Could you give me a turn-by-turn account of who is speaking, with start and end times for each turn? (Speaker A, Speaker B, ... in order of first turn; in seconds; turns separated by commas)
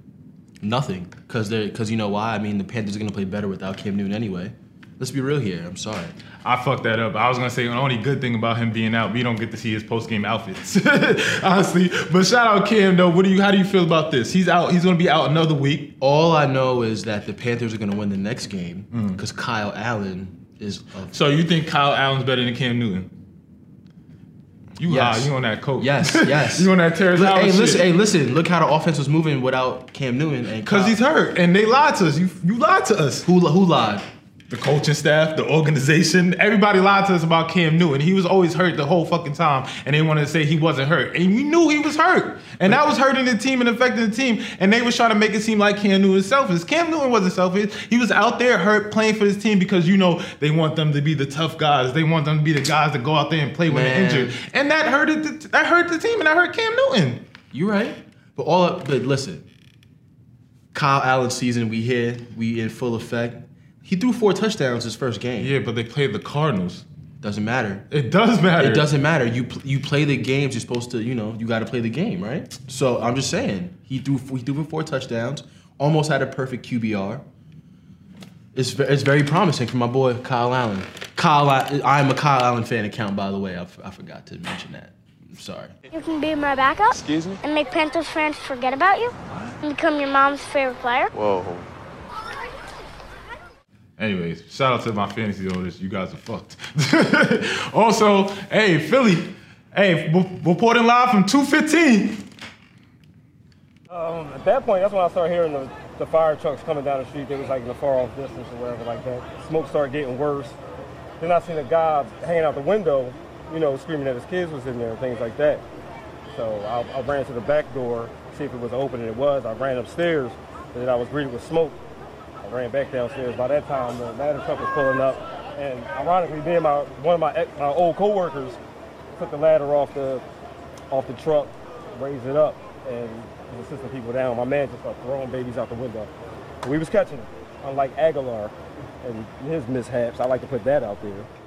Speaker A: 0.6-6.2, Speaker B: 6.4-15.9, Speaker A: 16.0-21.1, Speaker B: 18.9-19.2, Speaker B: 21.1-23.1, Speaker B: 24.8-27.9, Speaker A: 24.8-31.0, Speaker B: 30.7-33.3, Speaker A: 33.2-34.1, Speaker B: 34.5-57.2, Speaker A: 53.7-54.4, Speaker A: 57.5-59.4, Speaker A: 60.7-65.5, Speaker B: 65.4-66.9, Speaker A: 67.2-67.9, Speaker B: 67.9-68.9, Speaker A: 68.6-77.2, Speaker A: 78.5-85.8, Speaker C: 85.9-91.2, Speaker B: 94.0-102.2, Speaker D: 103.9-110.6, Speaker D: 111.2-115.6, Speaker D: 116.3-121.8, Speaker D: 122.4-128.6, Speaker D: 129.2-130.2, Speaker D: 130.9-136.1, Speaker D: 136.6-141.3